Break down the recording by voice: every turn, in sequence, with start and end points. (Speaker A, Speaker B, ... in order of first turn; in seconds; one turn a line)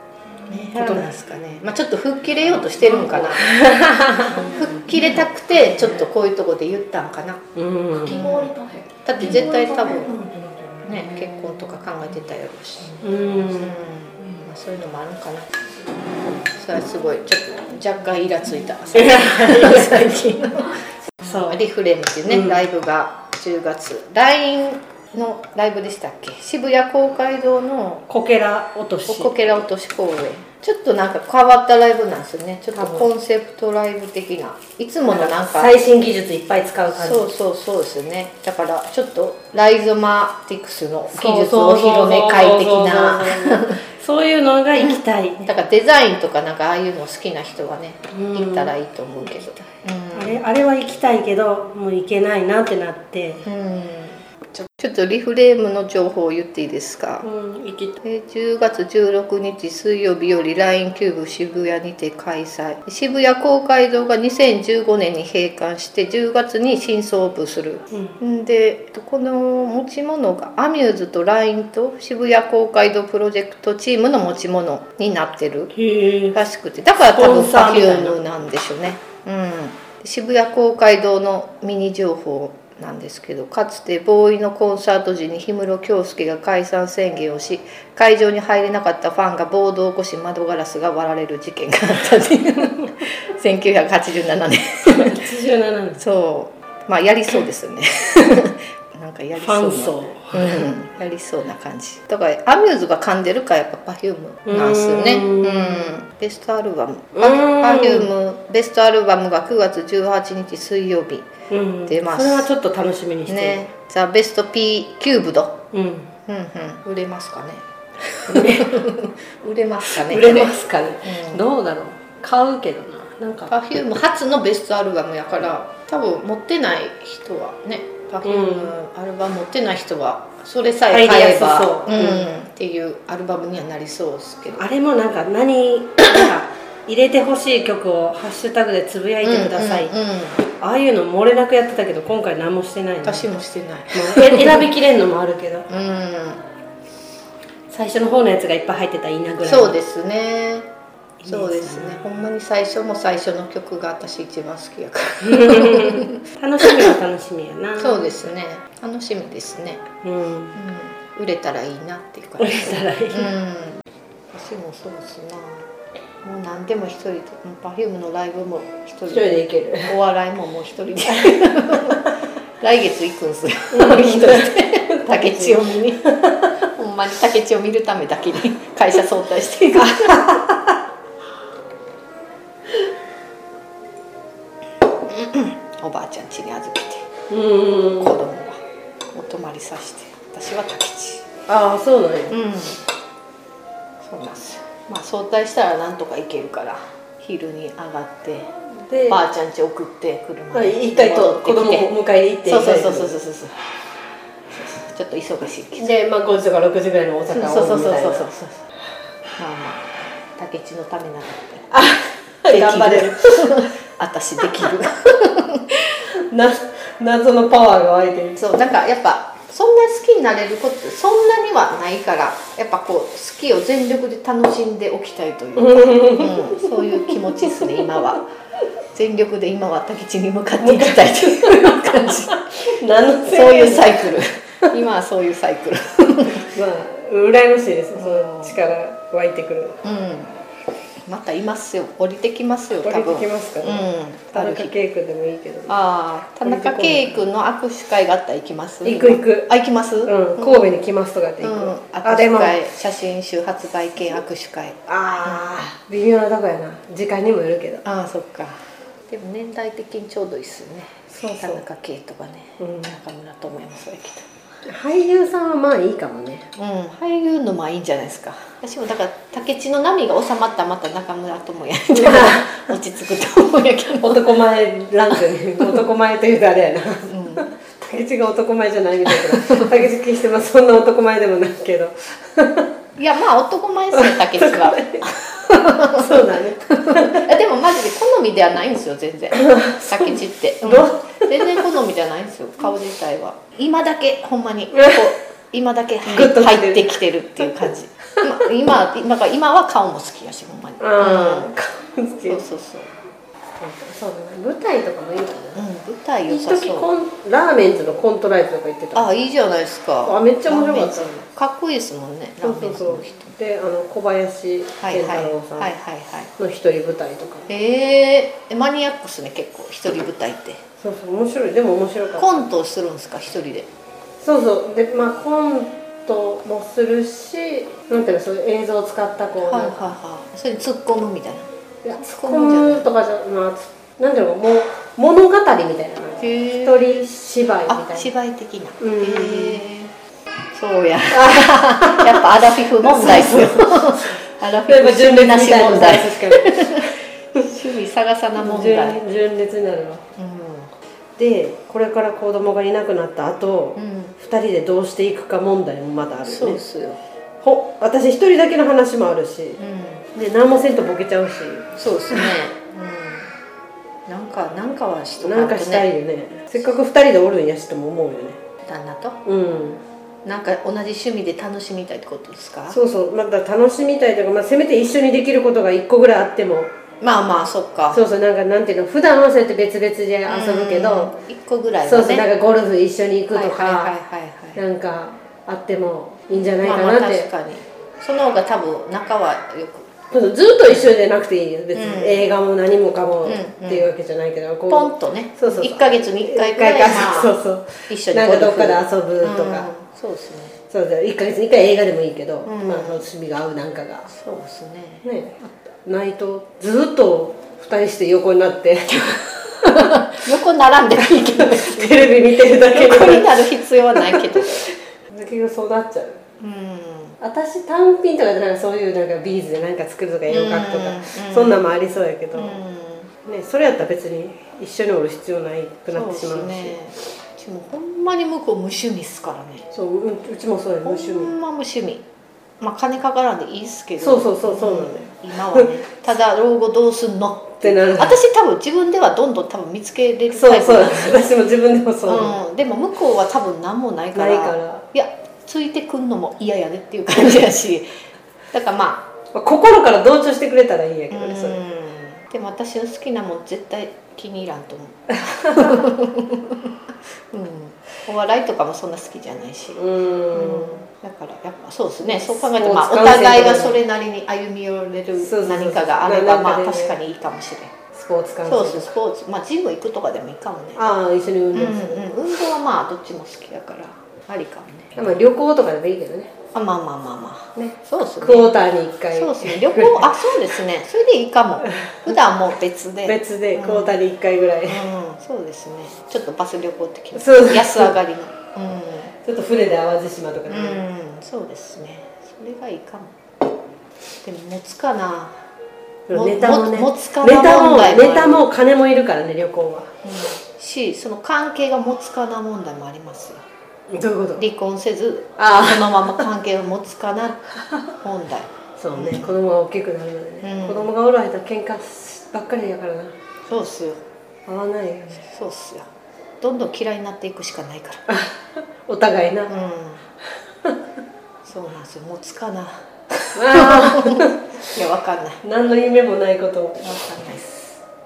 Speaker A: 0.5-3.6
Speaker B: 0.7-1.1
Speaker B: 3.1-4.4
Speaker A: 4.4-7.5
Speaker B: 7.5-8.3
Speaker A: 8.0-10.3
Speaker B: 9.2-9.6
Speaker A: 10.8-15.5
Speaker B: 13.0-13.8
Speaker A: 16.5-28.1
Speaker B: 18.9-20.5
Speaker B: 21.2-21.6
Speaker B: 22.3-22.6
Speaker B: 28.1-29.3
Speaker A: 29.1-35.7
Speaker B: 32.7-33.1
Speaker B: 35.1-37.2
Speaker A: 36.9-43.8
Speaker B: 41.1-45.4
Speaker A: 44.8-50.4
Speaker B: 48.1-48.7
Speaker B: 50.1-53.5
Speaker A: 53.4-57.3
Speaker B: 57.2-58.0
Speaker A: 58.0-75.7
Speaker B: 75.7-76.4
Speaker A: 76.3-95.2
Speaker B: 77.0-78.2
Speaker B: 94.9-96.0
Speaker A: 96.0-111.3
Speaker B: 99.4-100.7
Speaker B: 104.5-105.9
Speaker B: 107.2-108.1
Speaker B: 111.5-113.7
Speaker A: 111.9-112.5
Speaker A: 113.3-115.6
Speaker B: 115.7-116.1
Speaker A: 116.3-120.5
Speaker B: 118.3-118.7
Speaker B: 119.8-123.5
Speaker A: 121.0-121.4
Speaker A: 123.5-134.6
Speaker B: 128.2-128.7
Speaker B: 130.9-132.3
Speaker B: 134.5-139.9
Speaker A: 139.2-140.4
Speaker B: 140.4-143.3
Speaker A: 143.0-144.6
Speaker B: 143.9-145.7
Speaker A: 145.7-146.4
Speaker B: 147.7-149.8
Speaker A: 149.4-150.7
Speaker B: 151.2-152.1
Speaker A: 151.2-156.2
Speaker B: 155.2-158.1
Speaker A: 157.8-159.8
Speaker B: 160.0-160.5
Speaker A: 160.5-165.7
Speaker B: 162.4-163.3
Speaker A: 166.2-169.3
Speaker B: 169.1-169.9
Speaker A: 169.8-172.1
Speaker B: 171.2-171.5
Speaker A: 172.6-180.4
Speaker B: 173.7-176.5
Speaker B: 179.8-180.7
Speaker A: 185.1-187.1
Speaker B: 187.3-188.1
Speaker A: 187.9-188.6
Speaker A: 189.1-191.2
Speaker B: 191.5-192.3
Speaker A: 192.3-192.8
Speaker A: 194.0-198.4
Speaker B: 198.9-199.2
Speaker A: 199.1-203.5
Speaker B: 200.5-203.2
Speaker A: 204.5-205.9
Speaker B: 205.7-208.3
Speaker A: 207.3-208.6
Speaker A: 209.4-211.7
Speaker B: 211.7-213.7
Speaker A: 212.5-215.9
Speaker B: 216.1-218.4
Speaker A: 218.3-228.2
Speaker B: 225.6-227.8
Speaker A: 228.9-232.7
Speaker B: 230.6-234.2
Speaker A: 233.2-236.5
Speaker B: 236.5-239.8
Speaker A: 237.9-238.6
Speaker A: 239.8-240.3
Speaker A: 241.1-244.7
Speaker B: 242.8-245.7
Speaker A: 245.7-250.8
Speaker B: 246.4-247.2
Speaker B: 248.8-249.5
Speaker B: 250.0-252.6
Speaker A: 251.4-255.6
Speaker B: 254.9-257.8
Speaker A: 257.8-264.3
Speaker B: 261.1-261.6
Speaker B: 262.6-262.9
Speaker B: 264.6-266.4
Speaker A: 266.6-274.4
Speaker B: 271.9-272.6
Speaker B: 274.0-282.7
Speaker A: 277.1-277.5
Speaker A: 279.1-279.6
Speaker A: 283.0-301.5
Speaker B: 283.9-287.2
Speaker B: 289.3-291.5
Speaker B: 294.8-295.0
Speaker B: 296.0-297.5
Speaker B: 300.8-302.4
Speaker A: 302.2-302.9
Speaker B: 303.6-305.6
Speaker A: 305.5-306.9
Speaker B: 306.3-309.1
Speaker A: 308.9-313.3
Speaker B: 310.0-311.2
Speaker B: 312.4-315.7
Speaker A: 314.8-316.3
Speaker B: 316.4-317.5
Speaker A: 317.5-320.6
Speaker B: 320.8-322.4
Speaker A: 322.2-323.7
Speaker B: 324.2-329.9
Speaker A: 329.4-332.9
Speaker B: 331.8-338.1
Speaker A: 336.2-336.8
Speaker A: 337.7-339.9
Speaker B: 338.8-339.6
Speaker A: 340.5-349.0
Speaker B: 341.1-347.5
Speaker B: 348.4-350.0
Speaker A: 350.2-350.7
Speaker B: 351.2-356.6
Speaker A: 353.8-354.1
Speaker A: 356.2-357.0
Speaker B: 357.4-359.6
Speaker A: 359.6-360.1
Speaker B: 360.1-362.2
Speaker A: 361.8-363.3
Speaker A: 364.1-365.9
Speaker B: 365.2-368.4
Speaker A: 368.6-369.2
Speaker B: 369.2-369.8
Speaker A: 370.2-372.8
Speaker B: 372.7-376.7
Speaker A: 377.0-378.0
Speaker B: 377.9-381.1
Speaker A: 380.3-382.3
Speaker B: 381.8-383.9
Speaker A: 383.3-384.6
Speaker B: 384.5-387.3
Speaker A: 386.5-389.9
Speaker B: 390.1-399.7
Speaker A: 391.7-392.3
Speaker A: 393.2-393.9
Speaker A: 394.7-397.4
Speaker A: 397.9-400.6
Speaker B: 400.7-404.1
Speaker A: 402.4-403.0
Speaker A: 404.1-405.0
Speaker B: 405.0-410.0
Speaker A: 409.7-414.7
Speaker B: 411.0-416.2
Speaker A: 416.4-417.2
Speaker B: 417.2-422.6
Speaker A: 420.3-421.7
Speaker A: 422.3-423.1
Speaker B: 423.2-426.8
Speaker A: 425.9-429.6
Speaker B: 429.7-431.3
Speaker A: 430.8-432.0
Speaker A: 432.6-441.3
Speaker B: 434.0-435.7
Speaker B: 437.6-438.2
Speaker B: 440.3-442.4
Speaker A: 442.1-447.9
Speaker B: 444.1-444.8
Speaker A: 448.5-449.1
Speaker B: 449.3-451.6
Speaker A: 451.1-456.7
Speaker B: 455.5-455.8
Speaker A: 457.3-467.7
Speaker B: 459.8-460.8
Speaker B: 462.1-463.8
Speaker B: 465.2-466.9
Speaker B: 467.9-468.9
Speaker A: 468.4-470.8
Speaker B: 470.7-472.1
Speaker A: 471.5-475.1
Speaker B: 474.9-476.3
Speaker A: 476.5-478.6
Speaker B: 477.6-480.2
Speaker A: 479.1-483.9
Speaker B: 483.0-484.9
Speaker A: 484.6-489.1
Speaker B: 487.1-487.9
Speaker B: 489.2-490.8
Speaker A: 490.5-493.1
Speaker A: 494.2-495.4
Speaker B: 496.1-499.9
Speaker A: 496.1-498.4
Speaker A: 500.0-503.4
Speaker B: 503.9-504.4
Speaker A: 504.4-509.3
Speaker B: 505.4-506.2
Speaker B: 508.8-513.1
Speaker A: 510.4-510.9
Speaker A: 513.5-514.0
Speaker B: 514.5-515.2
Speaker A: 515.2-515.9
Speaker A: 516.4-518.0
Speaker B: 518.1-519.5
Speaker A: 519.5-520.0
Speaker A: 521.4-525.4
Speaker B: 523.4-524.4
Speaker B: 525.4-526.8
Speaker A: 526.8-527.8